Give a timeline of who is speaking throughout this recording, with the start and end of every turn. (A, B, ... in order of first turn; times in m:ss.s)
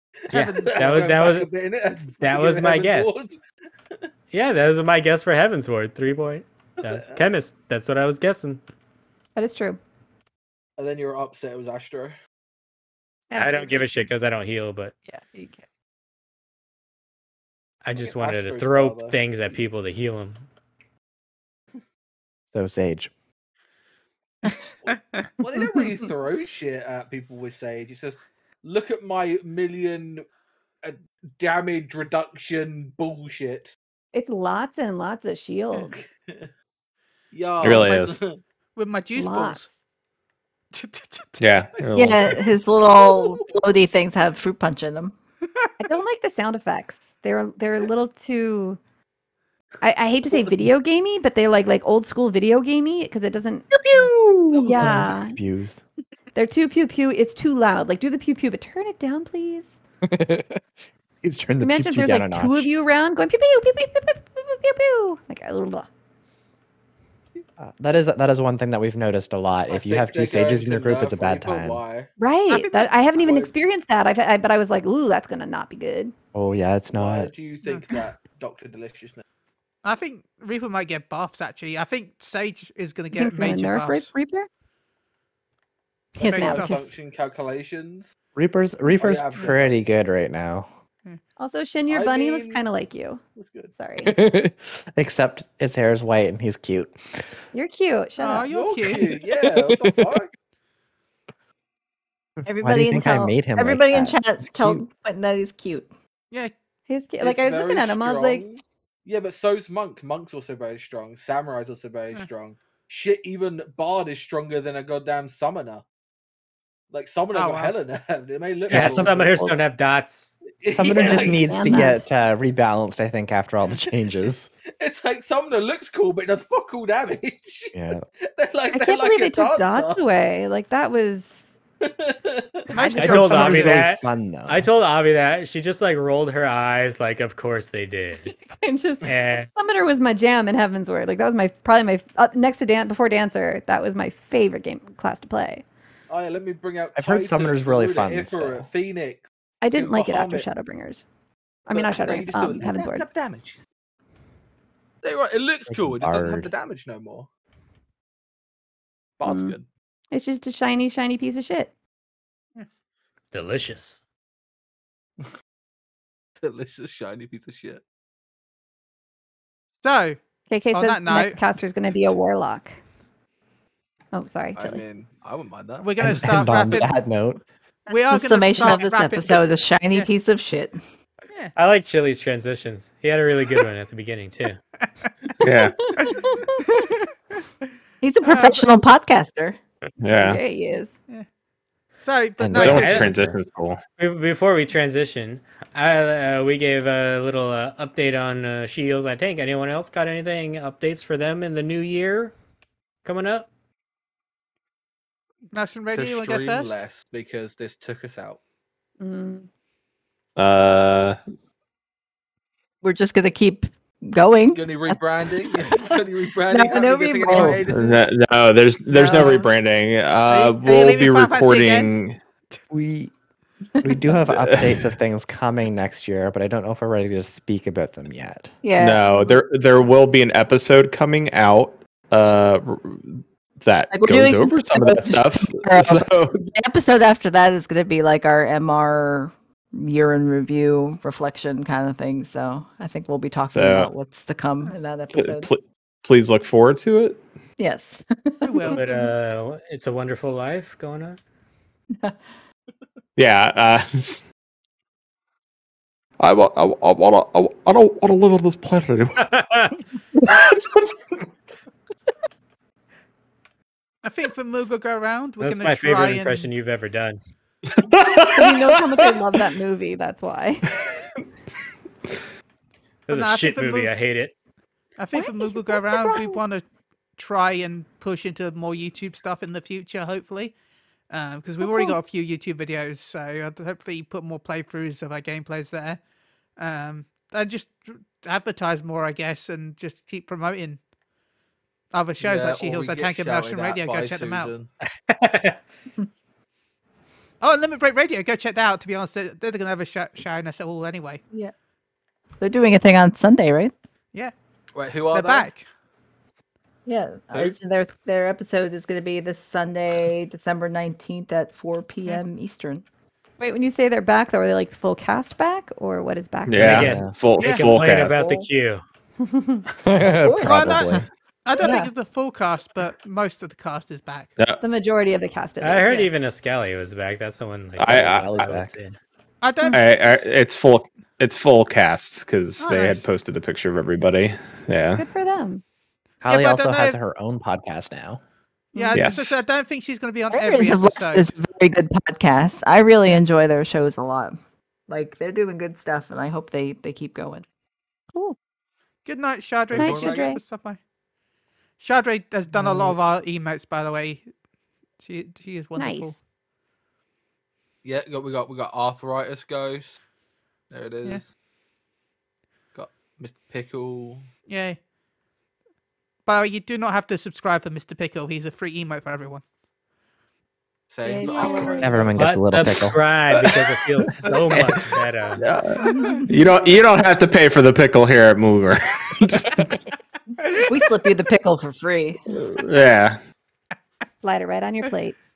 0:00.3-0:03.4 A
0:00.3-0:01.5 B
0:00.4-0:01.1 C
0:02.0-0:03.2 B
0:04.3-0:08.6 B
0:06.8-0:07.3 A
0:09.4-0:09.8 D
0:10.8-0:12.2 A
0:13.3-0:14.1 D
0:13.3-0:14.9 B
0:15.1-0:15.6 D
0:17.8-0:20.4 B
0:18.0-0:19.2 A
0:22.5-0:23.1 E
0:24.4-0:25.3 C
0:24.8-0:30.2 A
0:30.8-0:33.7 A
0:34.1-0:35.9 D
0:35.9-0:36.5 A
0:37.3-0:38.4 A
0:37.6-0:38.2 F
0:38.8-0:39.7 C
0:39.2-0:39.8 D
0:40.7-0:41.5 C
0:41.4-0:42.4 F
0:41.9-0:42.4 A
0:41.9-0:45.1 G
0:42.9-0:43.5 A
0:45.8-0:48.8 D
0:49.8-0:53.8 D
0:50.3-0:50.6 A
0:54.0-0:55.0 A
0:54.6-0:55.4 D
0:54.8-0:55.8 E
0:56.3-0:59.8 D
1:00.0-1:00.6 E
1:01.2-1:02.7 E
1:01.6-1:05.9 D
1:07.6-1:11.8 E
1:09.7-1:12.1 A
1:12.2-1:16.1 D
1:12.5-1:12.9 C
1:13.1-1:13.5 A
1:16.3-1:17.3 E
1:16.9-1:19.2 A
1:19.8-1:24.1 C
1:23.1-1:24.5 D
1:26.2-1:26.9 D
1:26.2-1:28.1 A
1:26.2-1:26.8 C
1:28.3-1:30.7 E
1:29.0-1:29.8 A
1:31.4-1:33.2 D
1:31.9-1:32.6 A
1:33.4-1:33.7 A
1:33.8-1:34.2 D
1:34.0-1:37.2 E
1:37.5-1:38.5 D
1:38.2-1:39.2 C
1:38.5-1:40.3 A
1:39.4-1:40.2 E
1:42.4-1:45.9 G
1:42.6-1:44.8 E
1:46.9-1:48.4 D
1:47.2-1:55.8 A
1:56.9-1:59.3 A
1:57.3-1:57.7 C
1:58.7-2:00.3 B
1:58.7-1:59.6 E
2:00.6-2:01.9 A
2:00.7-2:04.5 E
2:00.8-2:02.0 D
2:04.8-2:10.0 A
2:07.7-2:08.0 E
2:08.7-2:11.5 D
2:11.8-2:12.7 A
2:12.7-2:13.9 C
2:12.7-2:13.6 D
2:13.0-2:18.3 B
2:13.2-2:14.7 E
2:18.3-2:25.6 D
2:19.0-2:19.5 B
2:26.1-2:30.5 A
2:27.0-2:28.7 E
2:29.6-2:31.0 D
2:31.7-2:33.0 D
2:31.7-2:33.6 A
2:35.0-2:37.3 A
2:35.7-2:36.5 E
2:39.2-2:39.6 A
2:39.2-2:39.6 D
2:40.1-2:41.7 D
2:43.3-2:44.0 B
2:46.4-2:47.8 A
2:49.8-2:50.2 C
2:50.5-2:52.8 D
2:50.7-2:51.4 C
2:54.1-2:54.8 D
2:54.6-2:55.9 A
2:55.8-2:56.9 C
2:56.0-2:57.4 E
2:57.9-3:00.1 C
2:57.9-3:00.8 G
3:01.6-3:04.6 B
3:05.0-3:05.3 C
3:05.4-3:05.7 F
3:05.8-3:06.8 D
3:06.0-3:07.1 C
3:08.0-3:09.6 G
3:08.2-3:08.7 C
3:10.0-3:10.4 F
3:10.1-3:10.9 D
3:12.0-3:13.1 C
3:12.4-3:13.4 E
3:12.5-3:13.8 F
3:12.6-3:13.1 B
3:14.0-3:22.3 B
3:23.0-3:23.5 B
3:25.5-3:26.8 C
3:25.9-3:28.4 A
3:29.0-3:29.5 D
3:30.4-3:31.2 F
3:32.8-3:36.0 G
3:34.5-3:38.0 A
3:36.5-3:37.6 G
3:37.3-3:37.6 E
3:37.7-3:42.2 F
3:38.9-3:39.4 G
3:39.1-3:39.4 C
3:40.3-3:41.9 C
3:42.7-3:43.1 E
3:43.8-3:48.5 E
3:44.3-3:44.9 F
3:48.6-3:49.1 G
3:48.8-3:56.4 F
3:53.9-4:05.5 G
4:03.5-4:03.9 F
4:05.1-4:07.2 F
4:07.6-4:08.8 G
4:08.4-4:09.1 C
4:08.7-4:11.2 B
4:13.2-4:14.2 F
4:16.2-4:19.3 F
4:19.2-4:19.8 B
4:20.2-4:21.2 F
4:24.0-4:26.5 C
4:25.4-4:27.2 B
4:27.8-4:29.2 F
4:28.3-4:30.6 D
4:33.1-4:34.3 B
4:33.1-4:33.9 C
4:35.0-4:36.6 C
4:35.1-4:36.4 D
4:37.2-4:40.5 C
4:41.1-4:46.0 C
4:41.6-4:42.0 D
4:46.6-4:50.8 C
4:51.9-4:54.5 C
4:52.2-4:54.7 A
4:55.1-4:55.6 B
4:57.4-5:01.2 C
5:02.4-5:03.7 G
5:04.7-5:05.5 A
5:05.1-5:05.6 C
5:06.8-5:12.8 G
5:07.3-5:07.6 A
5:13.4-5:16.9 D
5:16.5-5:18.2 F
5:16.6-5:17.1 E
5:16.6-5:18.8 B
5:17.4-5:17.8 C
5:18.0-5:18.5 G
5:19.2-5:19.6 D
5:19.8-5:21.0 E
5:20.0-5:21.0 G
5:20.4-5:24.3 C
5:21.6-5:21.9 G
5:24.6-5:26.1 D
5:25.6-5:29.0 B
5:27.8-5:28.4 F
5:27.8-5:28.7 E
5:29.4-5:30.0 C
5:29.7-5:35.0 F
5:32.6-5:33.0 C
5:35.0-5:35.6 D
5:36.2-5:38.2 E
5:36.3-5:37.0 C
5:38.7-5:39.0 D
5:38.7-5:41.3 C
5:38.9-5:39.4 F
5:40.3-5:44.4 G
5:44.9-5:47.4 G
5:49.0-5:50.8 C
5:49.7-5:50.4 A
5:49.8-5:50.4 D
5:51.8-5:54.2 C
5:55.0-5:56.2 C
5:55.8-5:56.2 D
5:57.8-6:00.0 A
6:00.7-6:01.2 A
6:02.7-6:04.3 A
6:04.5-6:04.8 C
6:06.2-6:09.4 C
6:10.9-6:12.2 A
6:11.0-6:12.2 G
6:11.2-6:11.9 D
6:11.8-6:13.0 E
6:12.2-6:15.4 B
6:13.3-6:19.8 F
6:15.8-6:16.3 G
6:15.9-6:16.2 C
6:20.4-6:20.8 C
6:20.6-6:22.2 G
6:22.3-6:23.2 F
6:24.2-6:25.2 D